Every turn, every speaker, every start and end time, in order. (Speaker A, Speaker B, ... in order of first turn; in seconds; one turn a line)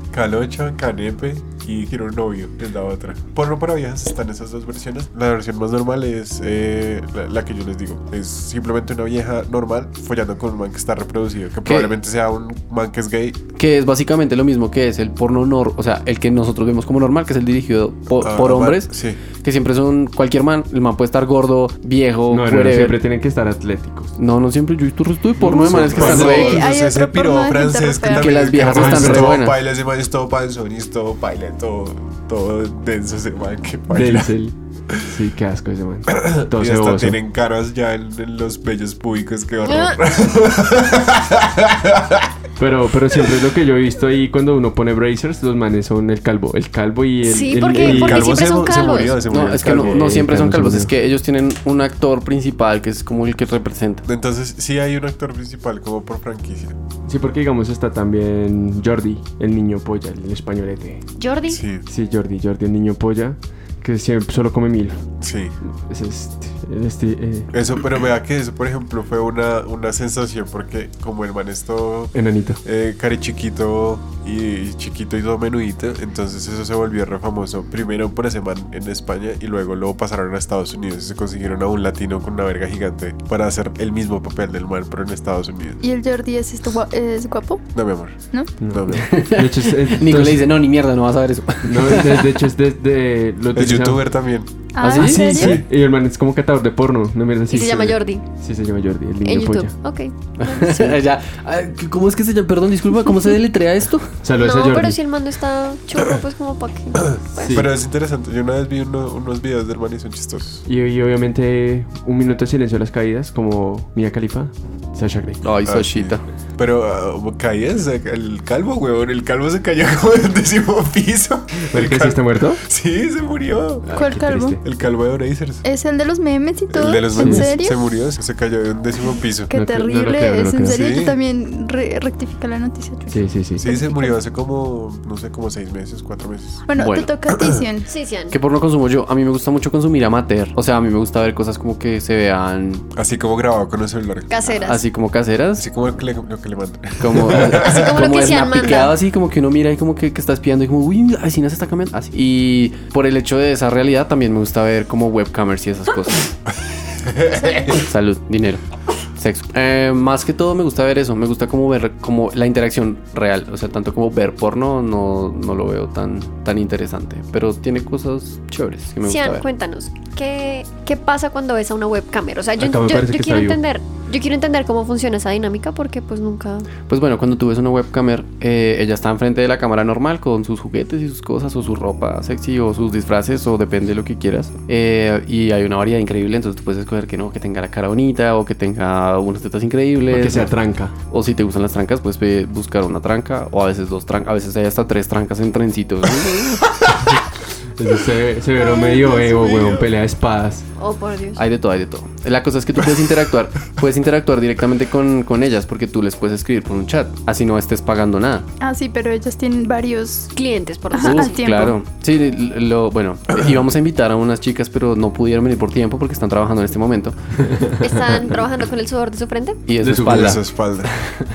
Speaker A: 0.1-13.4
Speaker B: 11.6-11.9
Speaker B: 13.6-23.0
Speaker A: 18.2-19.2
Speaker C: 22.3-24.1
Speaker B: 24.2-26.6
Speaker C: 25.4-26.5
Speaker A: 25.4-34.3
Speaker D: 26.1-28.4
Speaker B: 28.1-29.6
Speaker C: 28.7-29.4
Speaker C: 33.9-37.2
Speaker A: 36.1-42.3
Speaker E: 39.6-40.0
Speaker C: 42.6-48.3
Speaker E: 47.2-49.2
Speaker A: 47.8-50.2
Speaker B: 49.3-54.0
Speaker C: 49.8-50.9
Speaker A: 54.0-56.8
Speaker C: 57.0-61.0
Speaker E: 61.2-61.6
Speaker A: 61.5-61.8
Speaker C: 61.9-65.0
Speaker A: 65.2-65.5
Speaker C: 65.6-67.5
Speaker A: 67.5-85.8
Speaker C: 72.1-72.6
Speaker D: 85.8-87.6
Speaker A: 87.7-89.1
Speaker C: 88.6-90.5
Speaker B: 89.0-92.3
Speaker C: 91.6-94.0
Speaker A: 93.5-94.6
Speaker D: 94.7-95.6
Speaker B: 94.8-95.5
Speaker C: 94.8-99.7
Speaker E: 97.5-98.2
Speaker E: 99.2-100.9
Speaker B: 100.4-104.1
Speaker C: 104.2-105.0
Speaker E: 104.4-107.6
Speaker C: 107.4-107.7
Speaker A: 107.5-110.6
Speaker C: 110.7-115.4
Speaker B: 115.4-116.2
Speaker A: 115.6-123.9
Speaker C: 121.6-122.6
Speaker C: 123.9-124.6
Speaker D: 123.9-124.6
Speaker A: 124.6-125.6
Speaker D: 125.6-127.8
Speaker A: 126.7-129.5
Speaker C: 127.2-127.5
Speaker D: 129.5-134.2
Speaker C: 129.5-130.8
Speaker A: 130.7-131.2
Speaker C: 133.1-133.6
Speaker A: 133.6-136.6
Speaker D: 136.7-137.9
Speaker B: 136.8-137.1
Speaker E: 137.9-138.3
Speaker B: 138.3-142.9
Speaker A: 142.9-144.3
Speaker E: 144.3-144.8
Speaker B: 144.7-145.7
Speaker A: 145.5-147.8
Speaker B: 147.0-156.3
Speaker E: 147.4-148.9
Speaker A: 157.0-157.8
Speaker D: 157.3-157.8
Speaker B: 157.8-158.6
Speaker B: 159.2-169.4
Speaker E: 169.0-176.7
Speaker C: 172.6-173.6
Speaker B: 176.9-190.5
Speaker C: 190.1-190.9
Speaker B: 191.1-196.8
Speaker C: 197.8-200.7
Speaker E: 200.8-201.4
Speaker B: 201.4-208.5
Speaker D: 208.6-210.3
Speaker E: 210.3-211.4
Speaker D: 210.9-211.8
Speaker B: 210.9-217.2
Speaker E: 217.8-219.6
Speaker B: 219.7-220.4
Speaker C: 219.8-220.4
Speaker A: 219.9-220.9